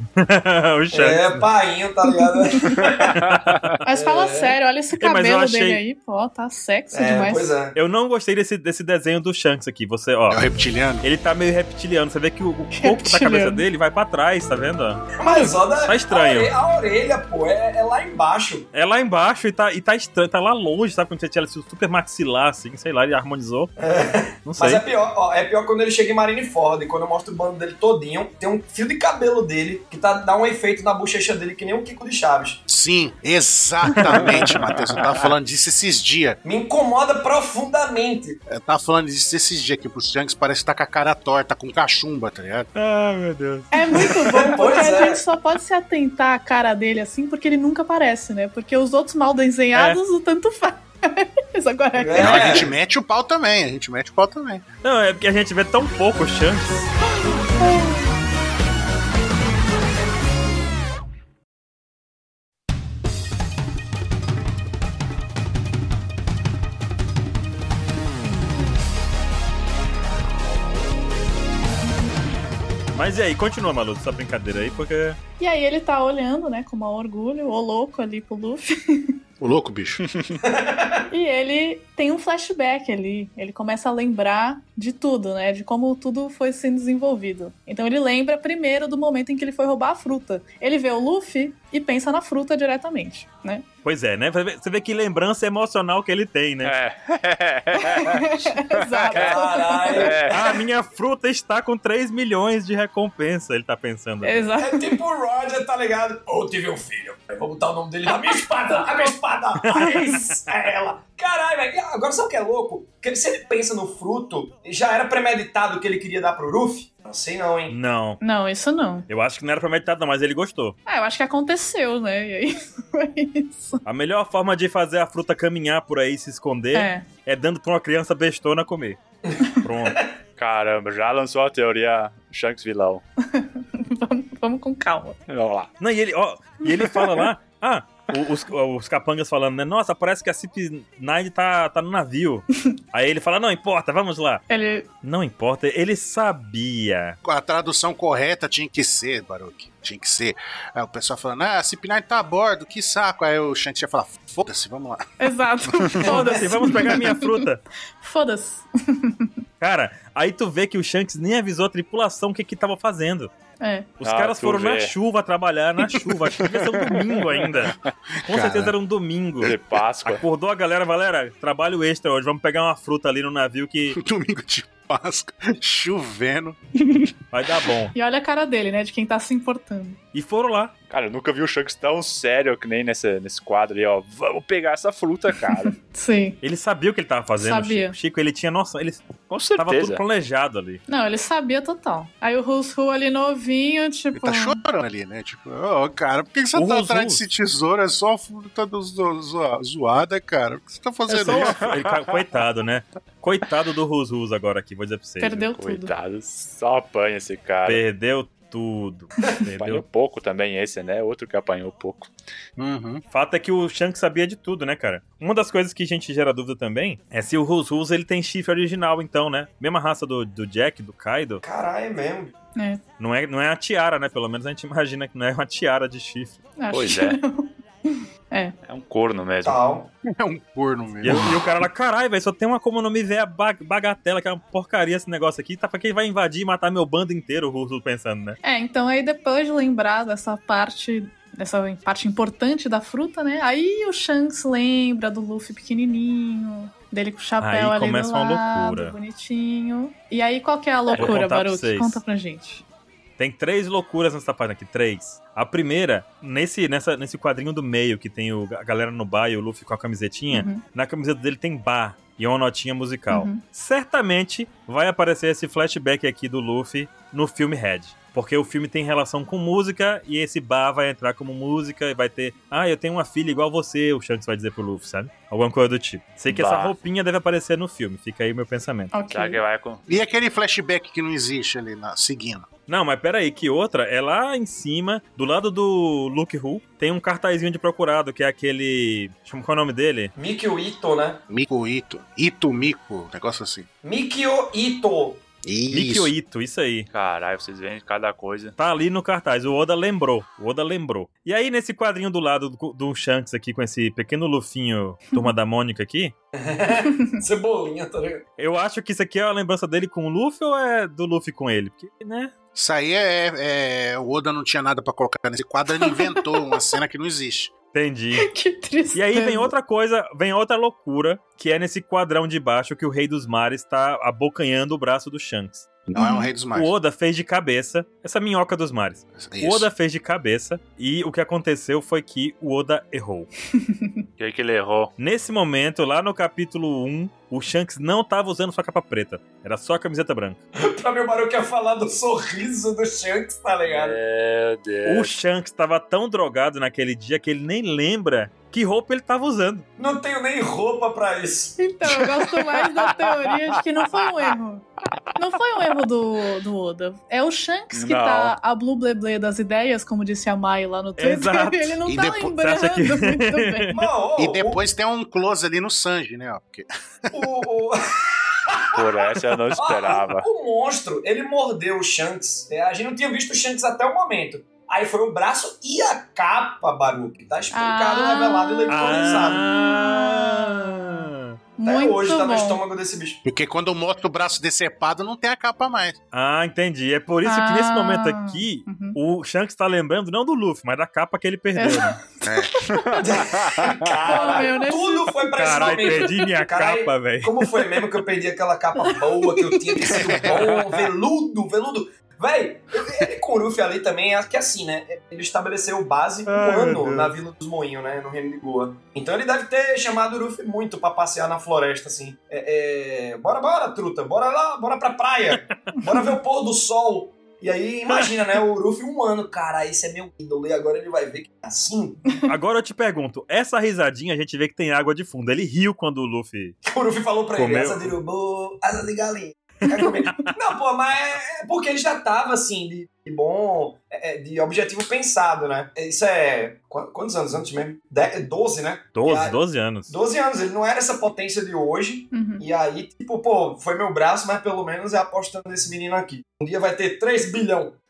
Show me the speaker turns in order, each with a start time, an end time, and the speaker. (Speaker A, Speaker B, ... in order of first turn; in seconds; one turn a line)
Speaker A: 0.2-1.4
Speaker B: 0.9-3.2
Speaker C: 2.4-2.8
Speaker A: 3.2-3.8
Speaker D: 3.2-3.7
Speaker C: 3.8-7.5
Speaker B: 3.9-4.6
Speaker A: 5.0-5.8
Speaker B: 6.9-7.8
Speaker A: 7.8-10.4
Speaker E: 10.3-11.1
Speaker A: 11.0-16.5
Speaker C: 12.7-13.7
Speaker B: 15.2-18.7
Speaker A: 18.7-23.7
Speaker B: 23.8-32.6
Speaker A: 24.4-24.8
Speaker E: 32.7-36.4
Speaker A: 34.0-34.3
Speaker B: 36.4-38.4
Speaker E: 38.5-42.7
Speaker A: 42.8-43.7
Speaker C: 43.7-52.6
Speaker B: 44.1-45.2
Speaker A: 49.7-50.0
Speaker B: 52.0-52.7
Speaker E: 52.1-54.6
Speaker A: 54.8-56.9
Speaker C: 57.6-58.0
Speaker A: 72.9-75.2
Speaker C: 75.4-79.2
Speaker E: 79.4-80.0
Speaker D: 80.0-80.4
Speaker B: 80.4-81.0
Speaker C: 81.1-93.7
Speaker A: 93.8-96.7
Speaker D: 96.6-99.4
Speaker C: 97.8-100.1
Speaker B: 99.1-100.5
Speaker D: 99.9-100.4
Speaker A: 100.3-104.5
Speaker C: 104.2-105.0
Speaker B: 104.6-117.8
Speaker A: 109.6-110.4
Speaker A: 117.7-118.2
Speaker C: 118.2-119.1
Speaker A: 119.1-120.8
Speaker C: 120.9-123.8
Speaker A: 123.8-129.0
Speaker C: 126.7-127.1
Speaker B: 129.2-130.1
Speaker A: 129.6-130.0
Speaker D: 130.4-133.0
Speaker C: 133.2-135.2
Speaker D: 135.3-135.7
Speaker A: 135.8-144.4
Speaker C: 144.5-144.9
Speaker A: 145.0-147.2
Speaker E: 147.2-155.0
Speaker C: 155.2-157.4
Speaker E: 155.7-156.0
Speaker A: 156.0-157.6
Speaker B: 156.1-156.3
Speaker C: 158.0-159.3
Speaker A: 159.6-163.3
Speaker C: 163.6-163.9
Speaker A: 164.0-167.7
Speaker D: 164.0-164.9
Speaker D: 166.0-167.6
Speaker A: 168.3-174.0
Speaker E: 168.3-168.7
Speaker D: 169.4-170.2
Speaker E: 173.9-176.6
Speaker A: 177.3-177.9
Speaker C: 177.9-180.0
Speaker A: 180.1-180.7
Speaker D: 180.9-185.7
Speaker C: 185.5-186.4
Speaker A: 186.4-190.8
Speaker C: 187.4-187.9
Speaker D: 189.3-190.0
Speaker C: 190.9-194.6
Speaker E: 194.2-201.7
Speaker A: 196.6-197.2
Speaker A: 201.1-205.5
Speaker D: 201.3-202.1
Speaker C: 205.2-205.9
Speaker D: 205.6-207.8
Speaker A: 207.7-209.8
Speaker D: 209.6-212.1
Speaker E: 212.6-213.0
Speaker A: 213.1-221.4
Speaker B: 221.4-222.3
Speaker C: 222.6-222.8
Speaker A: 223.0-226.4
Speaker C: 226.6-228.6
Speaker D: 226.7-227.2
Speaker D: 228.7-229.6
Speaker B: 229.4-229.9
Speaker E: 230.1-231.6
Speaker A: 231.0-238.4
Speaker C: 238.4-252.6
Speaker A: 247.4-249.0
Speaker D: 250.9-251.2
Speaker A: 251.0-252.0
Speaker A: 253.2-278.9
Speaker C: 260.3-260.6
Speaker C: 263.1-263.4
Speaker D: 276.3-276.8
Speaker C: 278.9-279.4
Speaker D: 279.1-279.8
Speaker E: 279.9-282.5
Speaker A: 282.7-290.1
Speaker B: 290.1-291.2
Speaker E: 291.3-293.7
Speaker B: 293.8-295.2
Speaker E: 295.4-296.1
Speaker A: 295.7-296.9
Speaker D: 296.9-298.6
Speaker A: 298.6-306.1
Speaker B: 306.3-308.2
Speaker A: 308.4-312.3
Speaker E: 312.6-317.5
Speaker C: 315.8-316.6
Speaker A: 317.7-318.3
Speaker C: 318.2-319.5
Speaker A: 318.9-325.7
Speaker E: 325.9-326.7
Speaker C: 326.0-326.3
Speaker A: 326.5-333.3
Speaker E: 329.1-329.7
Speaker C: 333.6-334.0
Speaker D: 334.2-334.9
Speaker A: 335.0-340.4
Speaker B: 340.6-344.0
Speaker D: 343.6-345.1
Speaker A: 344.9-349.7
Speaker B: 349.8-351.6
Speaker C: 351.6-363.7
Speaker D: 352.5-353.1
Speaker D: 357.7-358.4
Speaker A: 361.0-361.8
Speaker E: 361.9-362.4
Speaker A: 362.4-363.9
Speaker B: 363.7-364.6
Speaker E: 364.2-367.3
Speaker B: 367.1-368.8
Speaker D: 368.7-370.3
Speaker B: 369.6-379.4
Speaker C: 377.5-381.0
Speaker A: 378.7-381.4
Speaker C: 381.6-382.6
Speaker B: 381.6-383.2
Speaker E: 383.2-386.0
Speaker A: 386.1-392.0
Speaker C: 387.2-389.0
Speaker C: 391.6-393.3
Speaker E: 392.2-392.7
Speaker B: 393.0-422.1
Speaker D: 393.3-394.3
Speaker C: 394.1-396.1
Speaker A: 395.4-397.5
Speaker C: 398.8-399.8
Speaker E: 399.9-400.4
Speaker D: 400.2-400.9
Speaker A: 406.3-407.1
Speaker A: 415.4-415.8
Speaker A: 422.3-426.6
Speaker B: 426.6-447.8
Speaker A: 427.3-427.9
Speaker A: 429.8-430.3
Speaker A: 438.9-439.9
Speaker C: 442.1-442.4